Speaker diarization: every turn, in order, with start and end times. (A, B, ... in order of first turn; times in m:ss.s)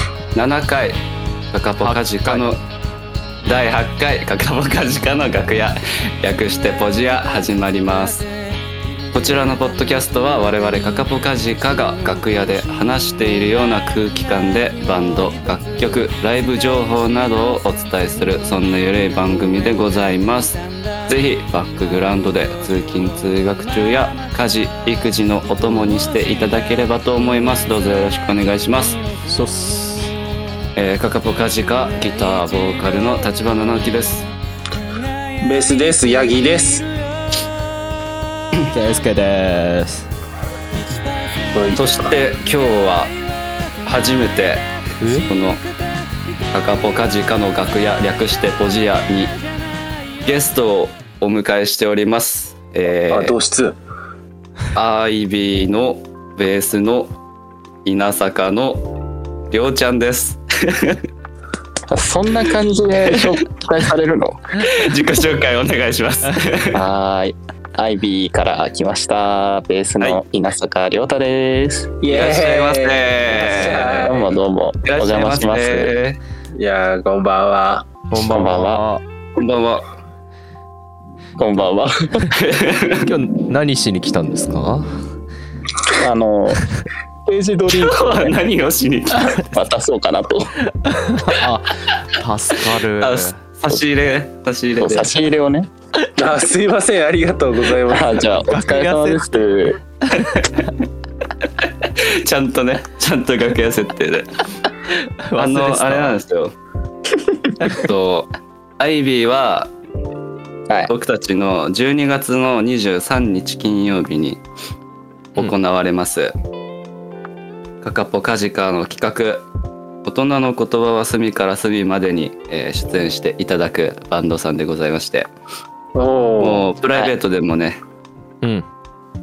0:00.3-0:01.0 A
0:01.5-0:02.6 A
0:01.8-0:02.5 B
0:03.4-0:08.2 A
0:09.1-0:29.0 A
0:29.3-0:30.1 B
0:30.8-0:34.3 A
0:35.4-0:36.9 C
0:38.7-0:40.1 B
0:41.5-0:42.1 C
0:41.7-0:43.1 A
0:43.8-0:45.6 A
0:45.0-0:45.3 B
0:46.5-0:49.3 A
0:50.2-0:53.4 A
0:53.1-0:53.8 C
0:54.7-0:57.1 A
0:57.8-0:58.9 A
0:59.5-1:01.0 A
1:01.9-1:04.4 D
1:04.6-1:06.8 A
1:06.7-1:12.0 D
1:12.0-1:14.3 C
1:12.1-1:14.2 A
1:14.0-1:15.9 D
1:14.8-1:16.2 A
1:16.6-1:17.9 C
1:18.1-1:19.0 B
1:18.2-1:18.8 D
1:19.4-1:19.9 A
1:21.4-1:22.3 D
1:22.3-1:23.1 A
1:23.0-1:24.9 B
1:25.9-1:26.6 D
1:27.3-1:28.4 D
1:27.7-1:29.6 A
1:29.5-1:30.5 D
1:30.9-1:33.4 B
1:33.0-1:35.1 A
1:34.8-1:35.7 D
1:36.2-1:38.3 C
1:37.9-1:39.8 D
1:38.4-1:39.3 B
1:40.2-1:40.5 B
1:41.8-1:44.4 A
1:44.9-1:46.2 B
1:45.4-1:46.5 A
1:47.6-1:49.7 A
1:50.9-1:54.4 A
1:55.4-1:56.3 A
1:57.8-1:59.4 A
2:00.0-2:05.3 A
2:05.9-2:06.7 C
2:06.4-2:07.8 A